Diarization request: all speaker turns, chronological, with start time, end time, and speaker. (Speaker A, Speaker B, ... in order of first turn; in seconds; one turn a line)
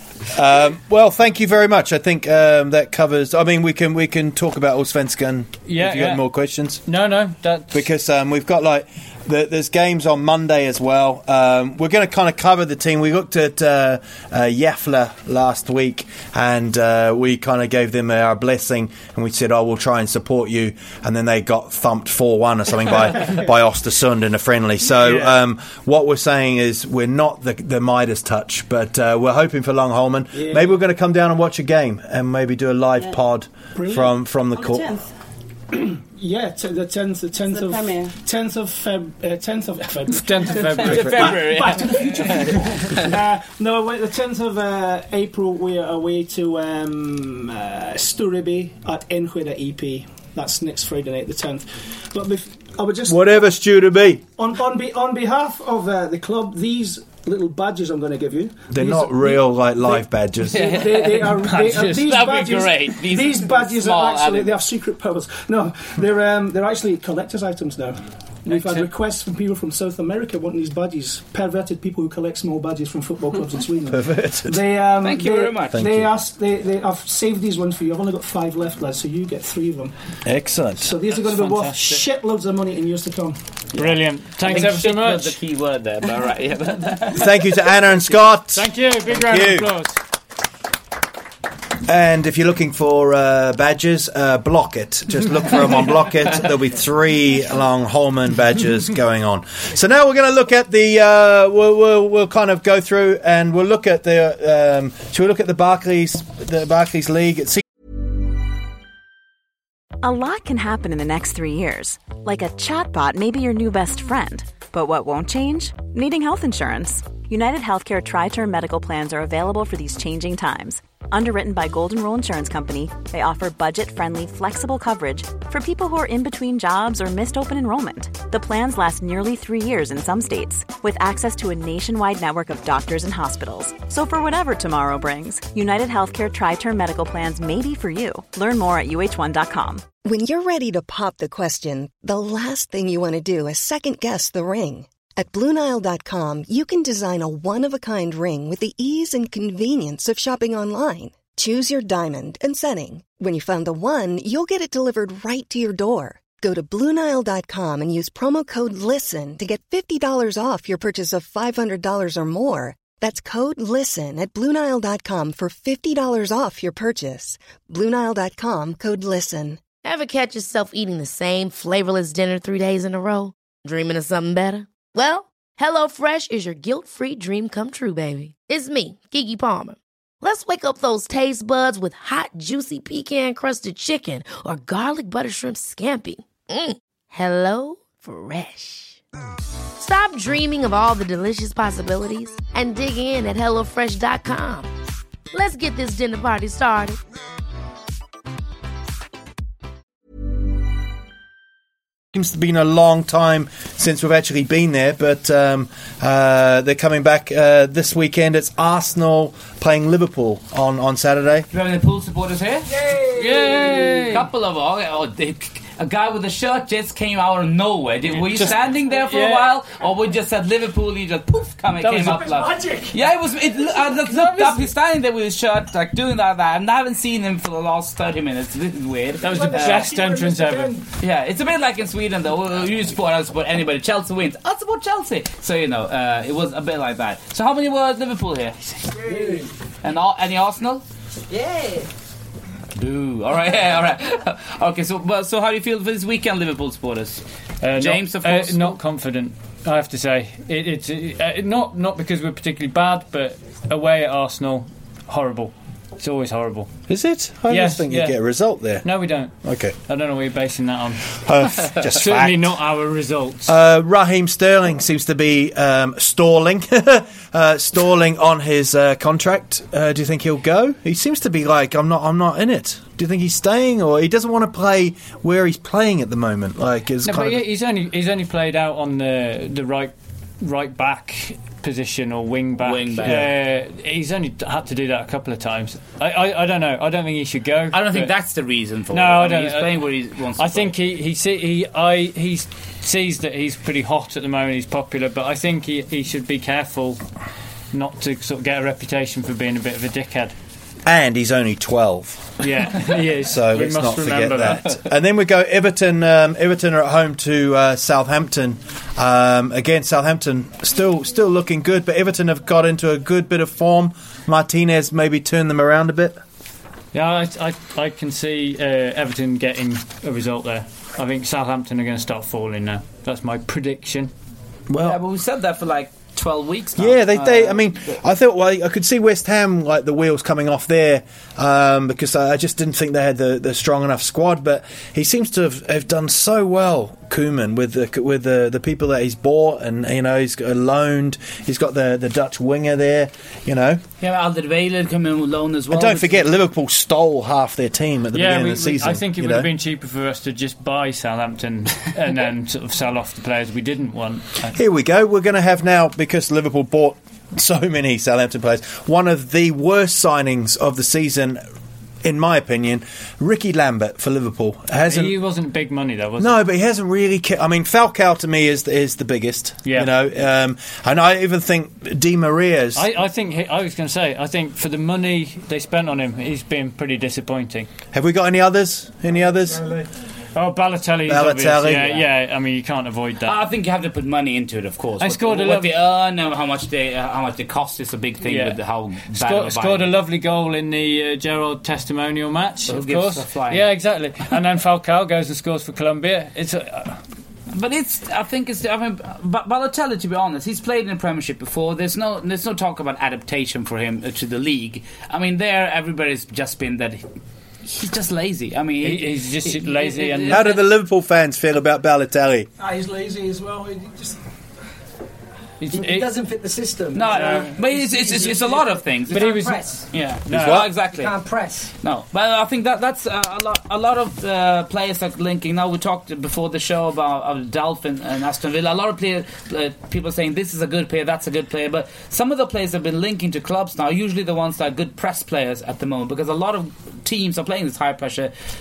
Speaker A: 0.3-6.8
Speaker B: 5.7-6.2
Speaker B: 6.8-7.8
Speaker A: 7.7-34.9
Speaker B: 25.0-25.3
Speaker C: 30.3-30.7
Speaker C: 33.7-34.1
Speaker D: 34.5-35.1
Speaker C: 35.7-53.4
Speaker D: 37.5-38.1
Speaker B: 40.1-41.4
Speaker E: 40.8-43.1
Speaker A: 40.9-41.2
Speaker A: 53.1-54.2
Speaker C: 54.4-79.9
Speaker A: 58.7-60.8
Speaker E: 60.5-64.5
Speaker B: 61.4-62.1
Speaker B: 68.5-68.9
Speaker A: 73.9-74.6
Speaker E: 75.0-75.8
Speaker A: 75.7-76.1
Speaker A: 80.2-80.9
Speaker C: 80.8-83.4
Speaker B: 81.1-82.0
Speaker E: 83.7-87.4
Speaker B: 83.8-85.4
Speaker A: 87.1-89.8
Speaker B: 88.5-90.0
Speaker A: 91.8-107.6
Speaker F: 110.0-139.8
Speaker G: 140.0-169.6
Speaker H: 169.8-189.0
Speaker H: 189.8-194.7
Speaker H: 195.3-197.0
Speaker A: 202.1-211.5
Speaker E: 211.5-212.7
Speaker C: 212.8-213.4
Speaker B: 213.1-214.3
Speaker E: 214.1-229.9
Speaker B: 218.1-219.6
Speaker B: 221.8-222.5
Speaker C: 222.4-222.9
Speaker B: 223.9-224.7
Speaker B: 229.2-230.8
Speaker C: 229.3-230.7
Speaker E: 231.0-239.0
Speaker I: 239.0-239.5
Speaker E: 239.8-240.8
Speaker D: 241.3-241.9
Speaker E: 242.8-248.8
Speaker B: 247.6-256.7
Speaker A: 256.9-258.9
Speaker B: 257.5-258.2
Speaker B: 258.8-259.3
Speaker A: 259.4-259.8
Speaker B: 259.9-261.1
Speaker A: 261.2-262.6
Speaker B: 261.8-263.5
Speaker A: 263.4-277.4
Speaker B: 277.0-288.1
Speaker E: 282.6-283.3
Speaker E: 287.7-290.7
Speaker B: 288.9-297.0
Speaker B: 297.7-300.3
Speaker A: 300.8-316.2
Speaker B: 302.4-304.8
Speaker B: 316.9-324.1
Speaker A: 324.7-325.0
Speaker E: 324.8-328.0
Speaker A: 326.8-343.8
Speaker E: 344.0-346.3
Speaker A: 345.7-349.5
Speaker B: 348.1-354.6
Speaker A: 354.5-361.4
Speaker A: 362.0-365.1
Speaker B: 364.9-366.4
Speaker A: 366.2-372.9
Speaker B: 369.6-369.9
Speaker B: 372.7-377.7
Speaker A: 377.9-379.7
Speaker I: 379.5-379.8
Speaker B: 380.3-383.4
Speaker A: 381.1-382.0
Speaker E: 383.2-389.9
Speaker B: 385.0-385.8
Speaker B: 388.2-397.0
Speaker E: 392.7-393.7
Speaker E: 397.5-407.0
Speaker E: 407.6-410.6
Speaker B: 408.8-410.6
Speaker A: 410.3-412.5
Speaker C: 412.6-414.2
Speaker B: 415.6-416.1
Speaker I: 415.7-419.9
Speaker E: 416.9-421.1
Speaker B: 417.1-417.5
Speaker B: 419.1-419.7
Speaker B: 420.3-420.6
Speaker A: 420.3-420.7
Speaker I: 420.7-421.7
Speaker E: 421.8-438.3